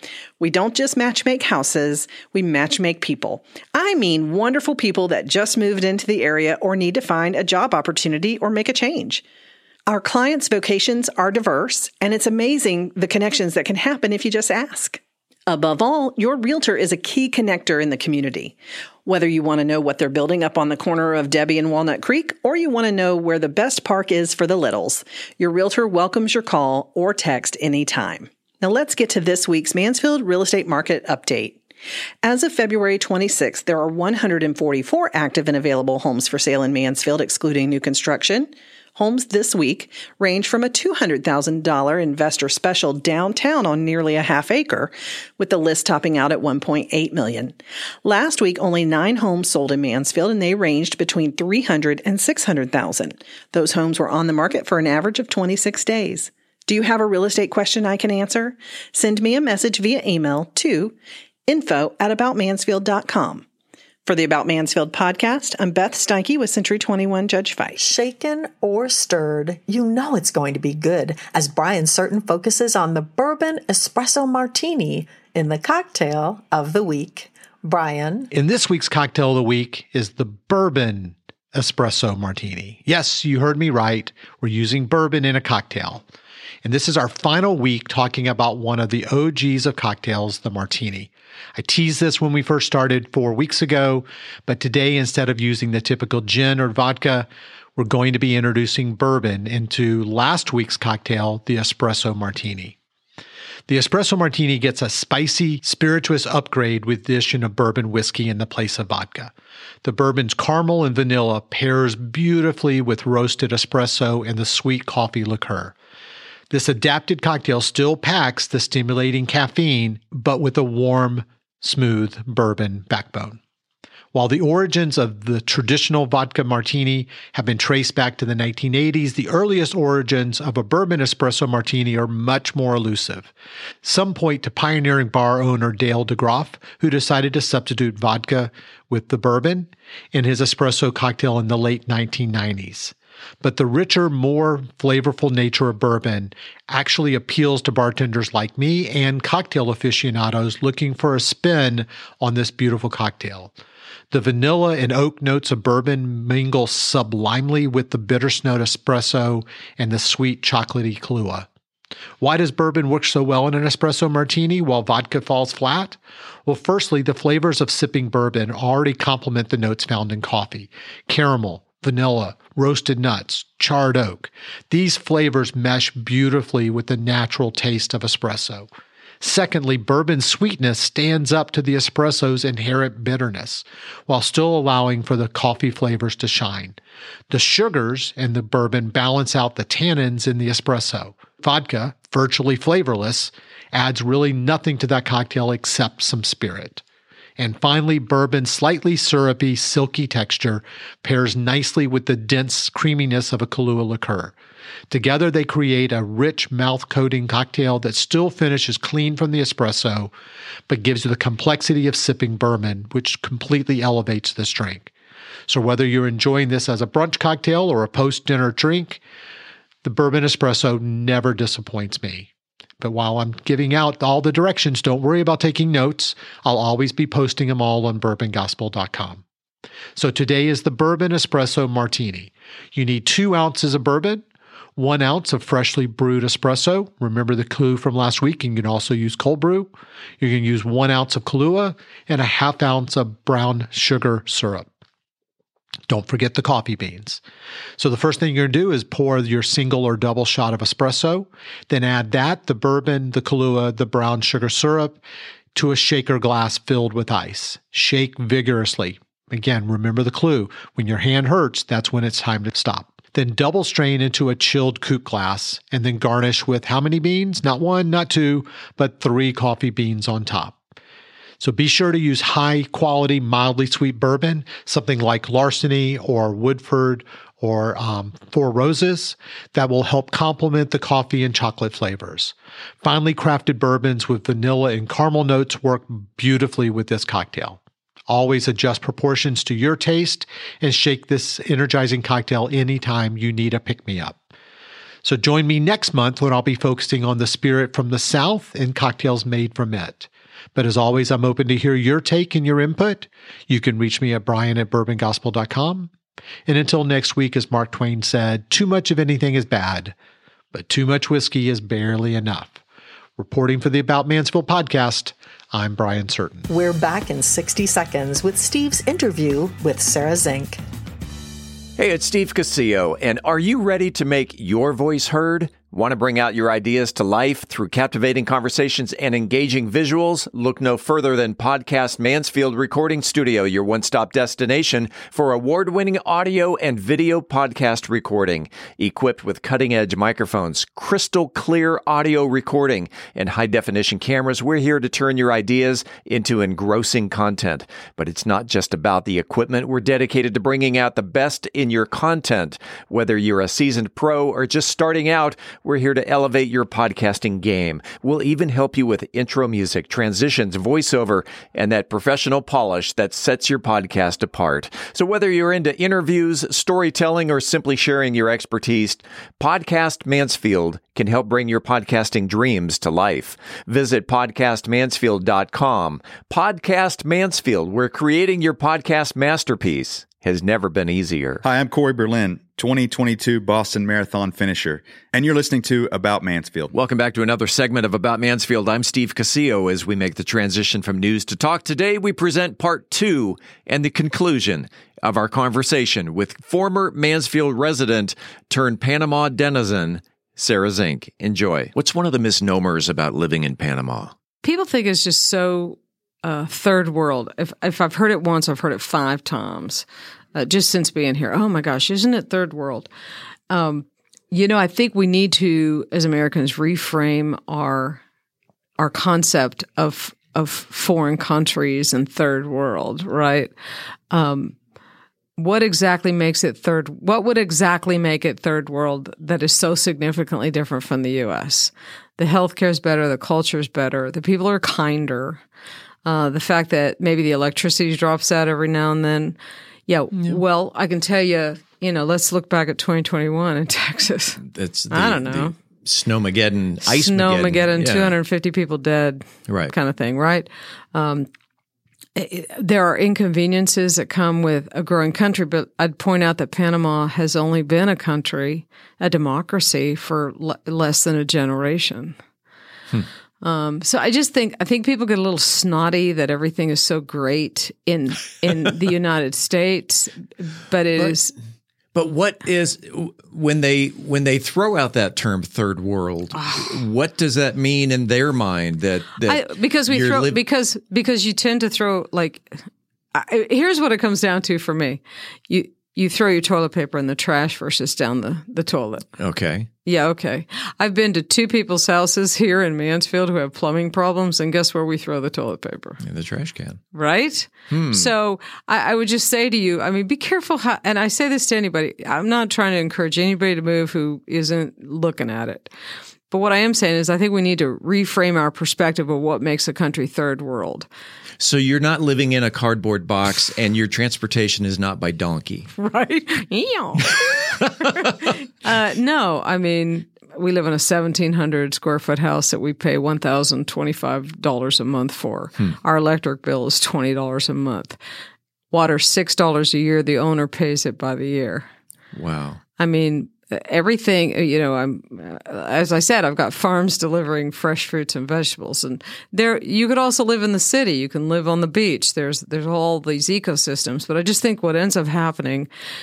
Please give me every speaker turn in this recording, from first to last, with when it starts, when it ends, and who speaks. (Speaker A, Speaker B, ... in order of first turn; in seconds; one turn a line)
Speaker A: 0.4-9.2
Speaker A: 9.9-31.6
Speaker A: 32.2-60.9
Speaker A: 61.5-63.4
Speaker A: 64.0-67.8
Speaker B: 67.8-78.3
Speaker C: 78.3-86.0
Speaker C: 86.6-102.7
Speaker C: 103.7-109.3
Speaker C: 109.8-115.7
Speaker C: 116.5-123.4
Speaker C: 124.1-133.3
Speaker C: 133.8-153.5
Speaker C: 154.1-161.5
Speaker C: 162.2-178.7
Speaker C: 179.2-186.8
Speaker C: 187.3-196.8
Speaker C: 197.4-204.3
Speaker C: 204.9-210.1
Speaker C: 210.7-214.9
Speaker C: 215.5-219.0
Speaker C: 219.8-222.3
Speaker C: 222.8-229.2
Speaker C: 229.9-234.2
Speaker C: 234.8-244.7
Speaker C: 245.9-247.2
Speaker C: 247.8-255.0
Speaker C: 255.5-270.6
Speaker C: 271.4-294.2
Speaker C: 295.0-305.9
Speaker C: 306.5-309.9
Speaker C: 310.5-312.6
Speaker C: 313.2-316.5
Speaker B: 316.5-320.6
Speaker D: 321.8-381.4
Speaker E: 381.4-386.7
Speaker D: 386.7-404.1
Speaker F: 404.4-412.9
Speaker F: 413.5-418.0
Speaker F: 418.8-423.5
Speaker F: 424.1-424.5
Speaker F: 425.4-435.4
Speaker F: 436.1-439.4
Speaker F: 439.9-445.5
Speaker D: 440.1-440.4
Speaker D: 444.4-448.1
Speaker F: 446.8-451.3
Speaker D: 449.5-449.7
Speaker F: 452.1-462.1
Speaker F: 463.4-471.3
Speaker D: 471.9-480.4
Speaker F: 476.3-476.8
Speaker F: 479.2-482.5
Speaker F: 483.1-489.1
Speaker D: 489.2-489.7
Speaker F: 489.8-496.0
Speaker D: 496.0-496.8
Speaker F: 496.9-505.7
Speaker D: 497.7-498.1
Speaker F: 506.3-510.9
Speaker D: 511.4-515.7
Speaker F: 515.8-517.2
Speaker D: 517.5-518.0
Speaker F: 518.6-528.0
Speaker F: 528.7-531.6
Speaker D: 532.1-532.6
Speaker F: 532.8-545.7